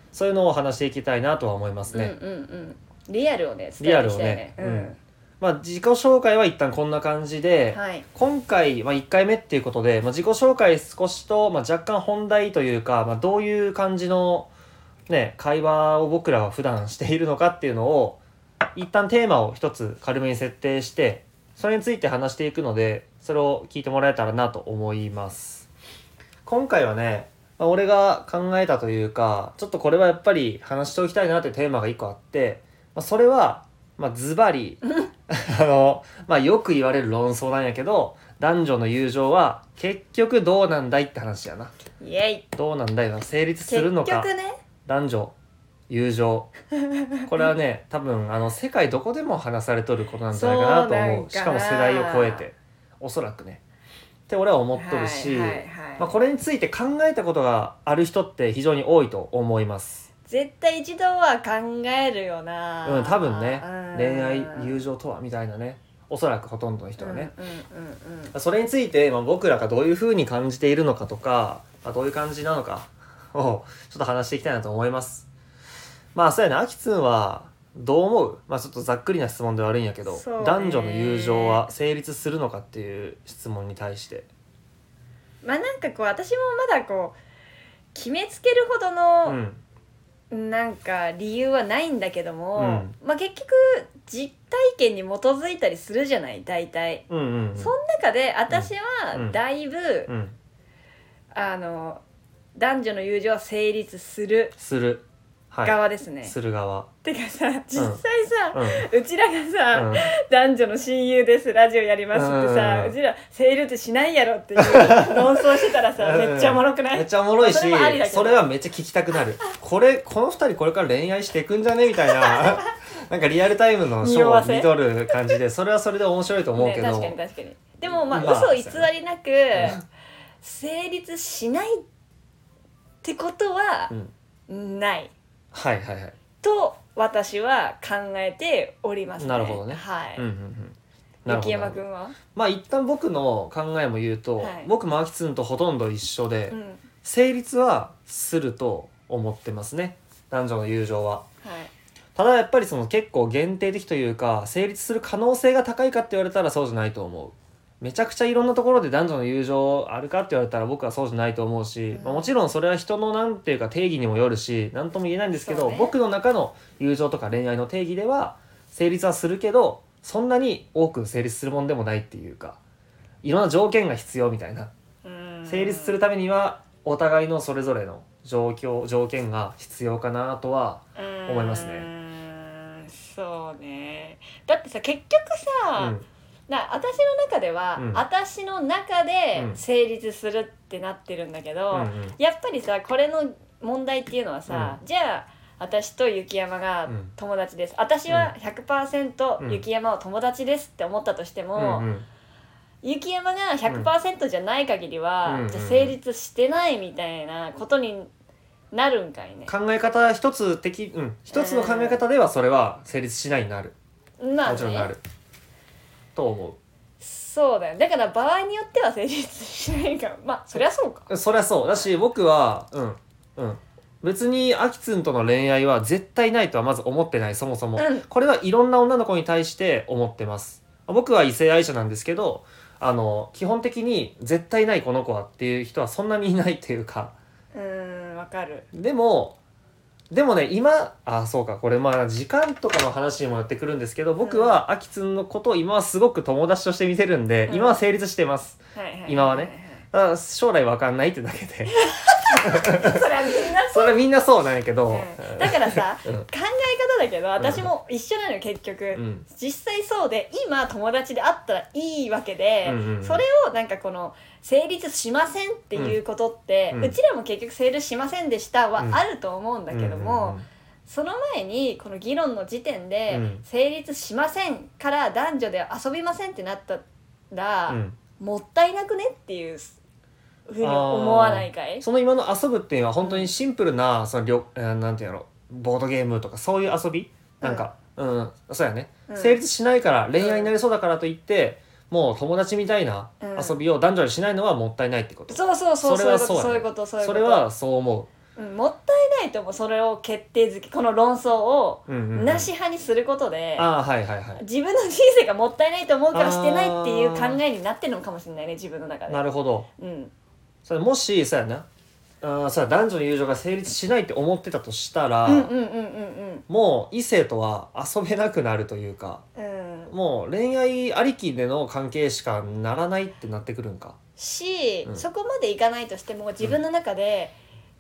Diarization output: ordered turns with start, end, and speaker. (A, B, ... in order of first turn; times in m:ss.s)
0:00.1-0:02.2 A
0:01.9-0:05.0 B
0:03.8-0:14.5 A
0:07.7-0:08.1 B
0:15.1-0:18.2 A
0:18.8-0:25.7 A
0:26.4-0:41.7 A
0:42.0-0:42.5 B
0:42.6-0:44.3 A
0:43.7-0:44.6 B
0:44.8-0:45.3 A
0:45.9-0:46.5 A
0:46.8-0:47.5 B
0:47.2-0:53.6 A
0:50.3-0:52.5 B
0:54.3-1:00.0 A
0:54.7-0:56.1 B
1:00.3-1:04.8 B
1:02.8-1:07.3 A
1:07.0-1:08.4 B
1:08.3-1:15.3 A
1:16.1-1:24.3 A
1:20.1-1:21.7 B
1:25.4-1:27.2 B
1:27.9-1:29.4 B
1:29.3-1:29.6 A
1:30.3-1:37.0 B
1:32.6-1:33.0 A
1:37.1-1:37.7 A
1:37.6-1:40.1 B
1:38.5-1:39.4 A
1:40.1-1:40.4 A
1:41.3-1:42.0 B
1:42.6-1:44.6 B
1:44.6-1:46.9 A
1:45.6-1:46.4 B
1:47.0-1:58.5 B
1:47.8-1:48.0 A
1:48.5-1:48.9 A
1:49.7-1:50.1 A
1:52.1-1:53.0 A
1:54.6-1:55.5 A
1:56.0-2:07.2 A
2:02.2-2:02.6 B
2:04.0-2:04.7 B
2:06.6-2:09.8 B
2:08.0-2:08.9 A
2:09.6-2:09.8 A
2:10.4-2:11.8 B
2:13.0-2:13.9 B
2:14.5-2:15.1 B
2:15.5-2:16.2 A
2:16.4-2:20.2 B
2:19.2-2:21.8 A
2:21.3-2:22.2 B
2:22.3-2:31.3 A
2:24.4-2:24.7 B
2:26.5-2:26.8 B
2:31.4-2:31.7 B
2:32.2-2:52.6 A
2:41.9-2:42.3 B
2:45.4-2:45.9 B
2:53.2-2:54.7 A
2:55.0-2:56.0 B
2:55.5-3:01.9 A
3:01.0-3:06.0 B
3:05.8-3:06.1 A
3:06.5-3:21.9 B
3:07.8-3:08.0 A
3:09.4-3:09.6 A
3:11.7-3:12.2 A
3:14.5-3:14.8 A
3:16.9-3:17.1 A
3:21.6-3:22.1 A
3:22.8-3:28.1 B
3:25.2-3:26.0 A
3:28.7-3:29.5 B
3:29.5-3:33.8 A
3:31.3-3:32.0 B
3:34.2-3:34.9 B
3:34.4-3:35.0 A
3:36.2-3:36.6 A
3:37.0-3:41.1 B
3:41.1-3:57.1 A
3:47.8-3:48.1 B
3:57.5-3:58.7 B
3:58.7-3:59.4 A
4:00.1-4:11.8 A
4:04.2-4:04.6 B
4:07.5-4:07.8 B
4:08.8-4:09.8 B
4:11.7-4:14.0 B
4:12.3-4:13.0 A
4:13.7-4:16.3 A
4:14.9-4:39.8 B
4:17.4-4:17.7 A
4:18.9-4:19.2 A
4:22.6-4:23.2 A
4:29.7-4:30.4 A
4:33.1-4:33.4 A
4:37.7-4:38.0 A
4:40.5-4:41.8 B
4:40.6-4:58.1 A
4:43.0-4:43.3 B
4:47.4-4:47.7 B
4:49.1-4:49.4 B
4:50.2-4:50.5 B
4:53.2-4:53.6 B
4:55.3-4:57.5 B
4:58.4-5:03.7 B
5:01.9-5:02.5 A
5:03.6-5:04.4 A
5:04.4-5:09.2 B
5:06.1-5:07.4 A
5:09.1-5:09.7 A
5:09.8-5:10.1 B
5:10.6-5:11.7 A
5:12.2-5:15.5 A
5:15.3-5:16.4 B
5:16.5-5:19.2 A
5:19.4-5:19.9 B
5:19.9-5:24.0 A
5:24.2-5:27.4 B